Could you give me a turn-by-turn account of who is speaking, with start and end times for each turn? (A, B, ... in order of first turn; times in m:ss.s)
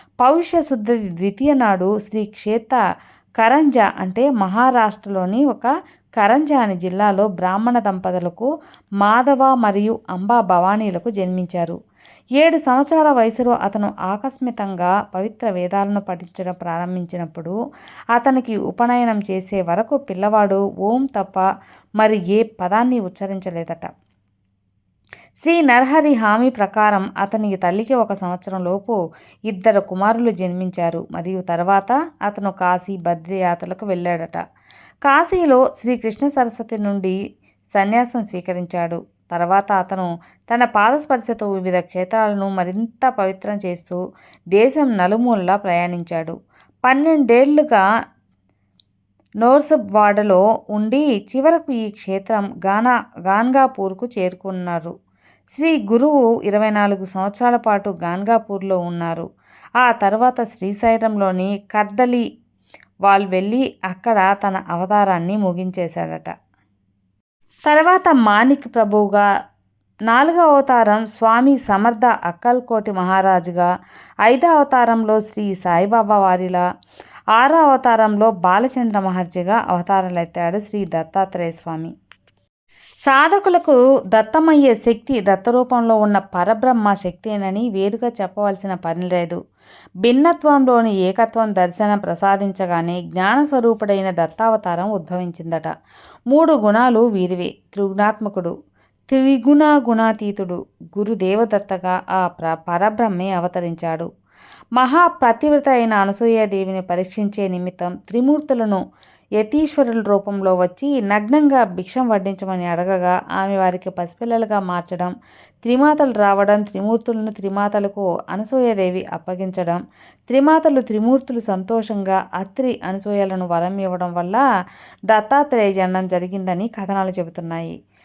0:00.2-0:02.8 A
0:03.4-0:08.5 A
0:09.0-0:11.8 A
0:12.4-0:17.5 A
0:18.2-0:21.4 A
0:22.0-0:23.9 A
0:25.4-0:29.0 A
0:29.5-0:34.4 A
0:35.0-0:37.2 A
0:37.8-0:44.0 A
0:44.6-0:46.4 A
0:46.9-0:47.8 A
0:49.4-0:54.9 A
0:55.5-0:59.2 A
0:59.8-1:02.2 A
1:03.1-1:06.3 A
1:07.7-1:09.2 A
1:10.1-1:13.7 A
1:14.2-1:16.6 A
1:17.4-1:21.9 A
1:23.0-1:29.4 A
1:30.0-1:35.7 A
1:36.3-1:38.5 A
1:39.1-1:44.1 A
1:44.8-1:48.8 A
1:49.4-1:55.1 A
1:55.6-2:04.4 A
2:05.1-2:07.8 A